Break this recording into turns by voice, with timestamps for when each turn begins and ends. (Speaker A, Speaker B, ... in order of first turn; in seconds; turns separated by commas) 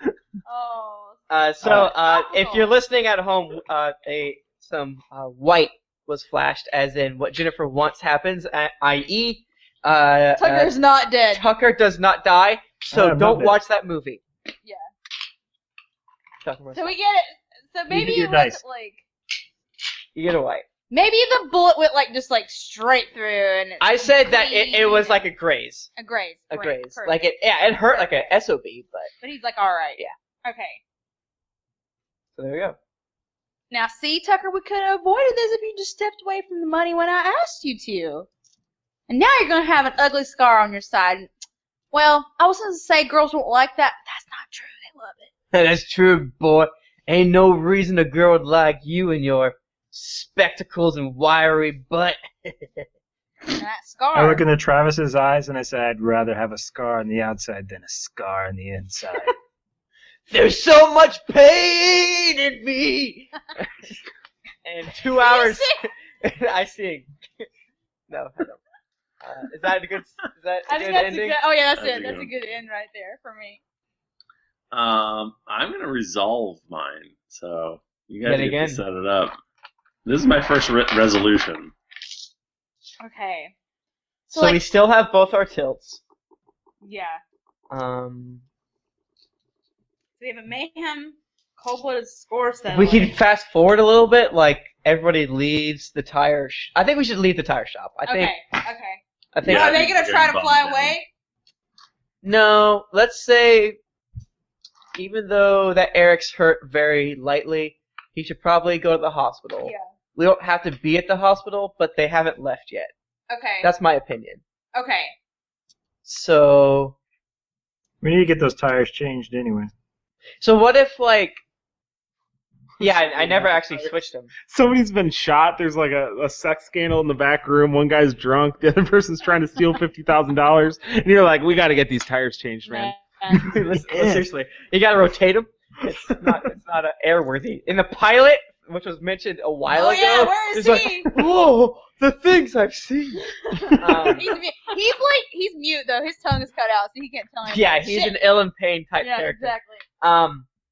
Speaker A: 0.5-2.7, Speaker B: 1.3-10.8, Speaker A: 10.4-11.4, Speaker B: 11.3-14.2, Speaker C: 12.9-13.6, Speaker A: 14.6-14.9, Speaker B: 16.4-16.9, Speaker A: 16.8-19.0, Speaker C: 17.9-18.6, Speaker B: 20.1-20.6, Speaker A: 20.9-25.2, Speaker B: 23.8-25.9, Speaker A: 26.0-27.2, Speaker B: 26.5-29.1, Speaker A: 29.2-30.8, Speaker B: 32.4-32.8, Speaker A: 33.7-38.3, Speaker A: 39.1-41.3, Speaker A: 41.9-45.3, Speaker B: 45.5-52.9, Speaker A: 53.5-54.4, Speaker C: 54.1-59.3, Speaker B: 60.3-64.0, Speaker B: 64.6-67.5, Speaker A: 65.2-65.8, Speaker B: 68.1-68.6, Speaker B: 69.2-71.4, Speaker A: 70.7-73.6, Speaker D: 71.8-72.3, Speaker D: 74.7-79.4, Speaker B: 78.2-78.8, Speaker D: 80.1-81.7, Speaker A: 83.0-83.5, Speaker A: 84.3-84.6, Speaker B: 84.3-86.0, Speaker A: 86.8-87.2, Speaker B: 87.7-88.4, Speaker A: 90.2-93.1, Speaker B: 92.7-98.3, Speaker A: 98.1-101.1, Speaker B: 99.3-99.8, Speaker D: 99.4-101.0, Speaker B: 102.2-103.8, Speaker B: 105.0-112.9, Speaker A: 113.3-113.7, Speaker B: 113.6-114.4, Speaker A: 114.8-115.1, Speaker B: 116.0-117.0, Speaker C: 118.0-119.7, Speaker B: 120.4-121.4, Speaker B: 122.8-124.3, Speaker E: 122.8-133.0, Speaker A: 132.7-133.5, Speaker B: 133.4-143.2, Speaker C: 133.9-134.3, Speaker A: 139.7-141.1, Speaker A: 143.6-148.2, Speaker B: 143.8-144.3, Speaker B: 147.5-150.5, Speaker A: 149.0-149.8